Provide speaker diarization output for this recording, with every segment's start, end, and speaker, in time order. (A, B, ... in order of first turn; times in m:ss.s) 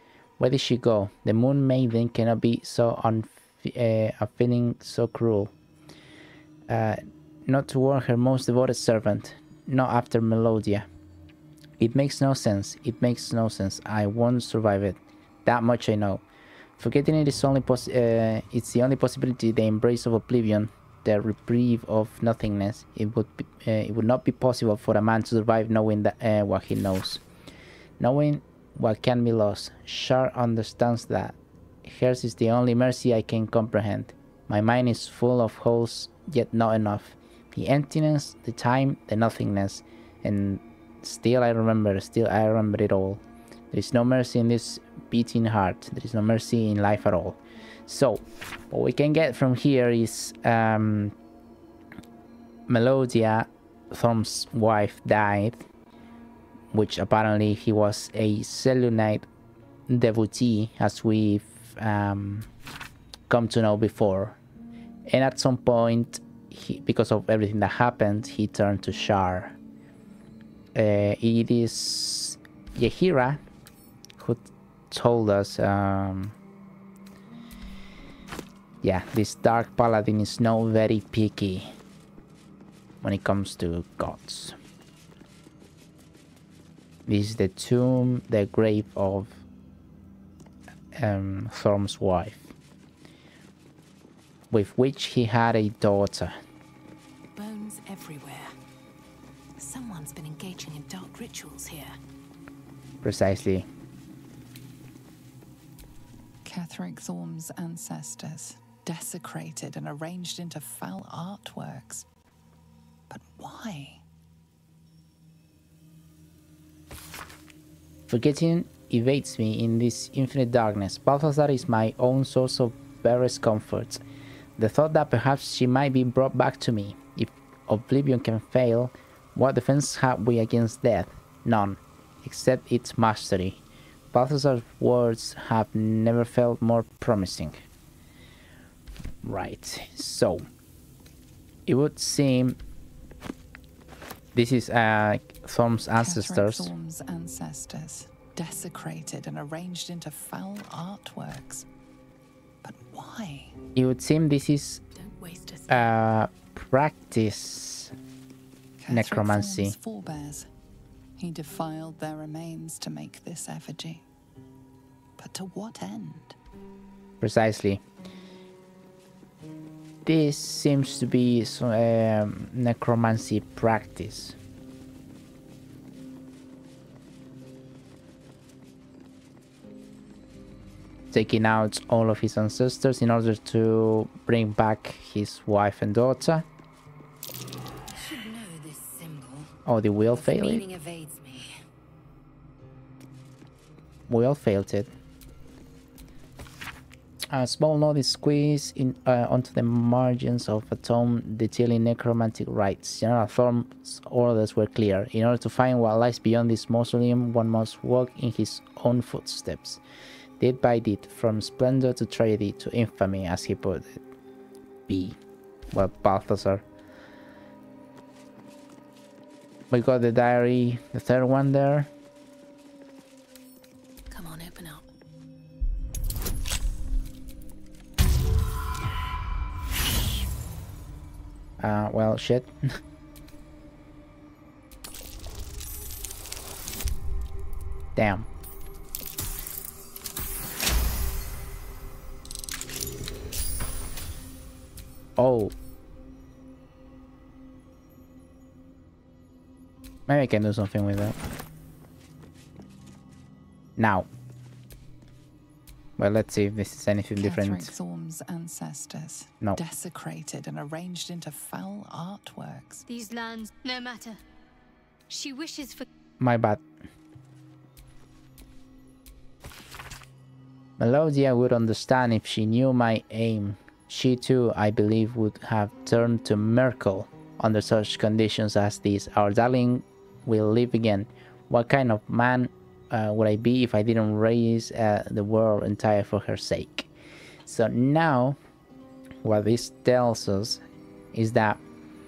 0:00.4-0:05.5 A
0:06.7-0:10.9 A
0:11.8-0:16.2 A
0:16.8-0:27.2 A
0:28.0-0:51.1 A
0:52.7-0:55.7 A
0:56.7-0:59.3 A
0:59.9-1:02.5 A
1:03.3-1:04.4 A
1:05.1-1:09.6 A
1:10.7-1:13.4 A
1:14.2-1:16.4 A
1:18.8-1:21.7 A
1:23.0-1:24.6 A
1:27.1-1:29.4 A
1:30.9-1:32.5 A
1:34.5-1:36.3 A
1:37.3-1:38.5 B
1:39.6-1:42.0 B
1:43.0-1:43.7 A
1:46.4-1:52.0 C
1:53.1-1:54.0 C
1:58.1-2:04.0 A
2:04.6-2:13.6 A
2:14.1-2:17.6 A
2:19.2-2:20.4 A
2:21.7-2:22.6 A
2:24.3-2:26.7 A
2:26.0-2:31.6 C
2:32.6-2:33.5 C
2:33.7-2:34.8 A
2:34.9-2:35.9 B
2:35.7-2:37.9 A
2:38.8-2:40.5 C
2:38.9-2:39.7 A
2:41.2-2:44.0 C
2:45.2-2:46.4 C
2:47.2-2:47.8 A
2:50.0-2:54.4 A
3:01.1-3:06.4 A
3:07.9-3:09.5 B
3:09.6-3:10.6 A
3:10.1-3:11.5 B
3:14.1-3:14.9 A
3:17.3-3:29.8 A
3:30.4-3:34.0 A
3:34.9-3:35.2 A
3:35.7-3:36.6 A
3:39.7-3:41.9 A
3:44.1-3:44.9 B
3:51.6-3:52.5 A
3:58.0-3:58.3 A
4:05.2-4:05.5 A
4:10.1-4:11.2 A
4:13.8-4:14.1 A
4:16.0-4:17.7 A
4:17.2-4:22.8 C
4:22.9-4:24.2 D
4:25.1-4:25.8 D
4:26.2-4:26.6 A
4:30.8-4:46.9 A
4:47.4-4:48.4 A
4:49.2-4:50.6 A
4:51.1-4:51.6 A